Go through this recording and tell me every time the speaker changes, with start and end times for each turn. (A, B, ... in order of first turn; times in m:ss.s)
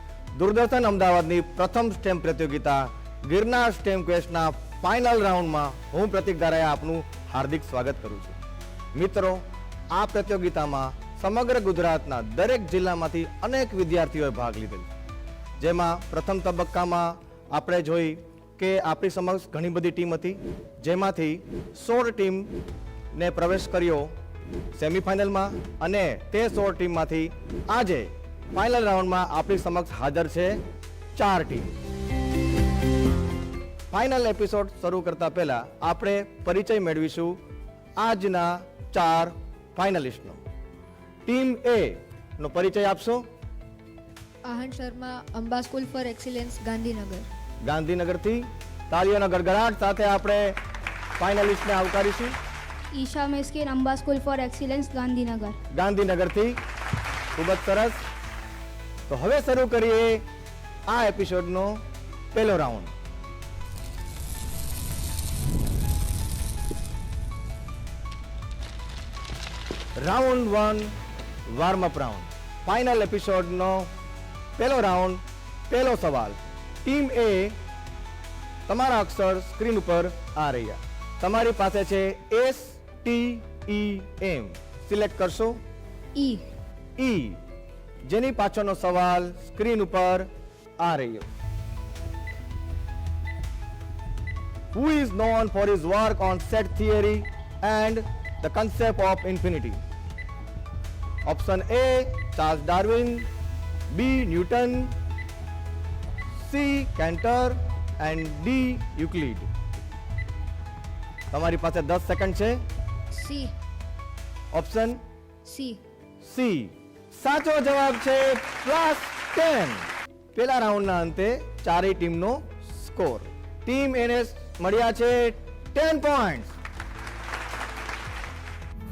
0:00.3-0:08.4 A
0:08.9-0:14.9 A
0:15.6-0:22.5 A
0:23.1-0:24.1 A
0:24.7-0:30.6 A
0:31.2-0:31.7 A
0:33.9-0:37.4 A
0:38.0-0:40.4 A
0:41.2-0:43.2 A
0:44.4-0:47.3 B
0:47.6-0:50.6 A
0:51.2-0:52.4 A
0:52.9-0:55.6 C
0:55.7-0:56.6 A
0:57.4-0:58.0 A
0:59.1-1:00.2 A
1:00.9-1:01.8 A
1:02.3-1:02.9 A
1:10.0-1:10.9 A
1:11.5-1:13.9 A
1:14.6-1:17.6 A
1:18.7-1:25.6 A
1:26.2-1:26.5 B
1:27.0-1:27.4 A
1:28.1-1:30.3 A
1:30.8-1:31.3 A
1:34.7-1:39.8 A
1:41.2-1:43.3 A
1:43.9-1:44.9 A
1:46.4-1:49.5 A
1:51.3-1:52.6 A
1:53.1-1:53.5 B
1:54.5-1:55.0 A
1:55.4-1:55.8 B
1:56.2-2:06.6 A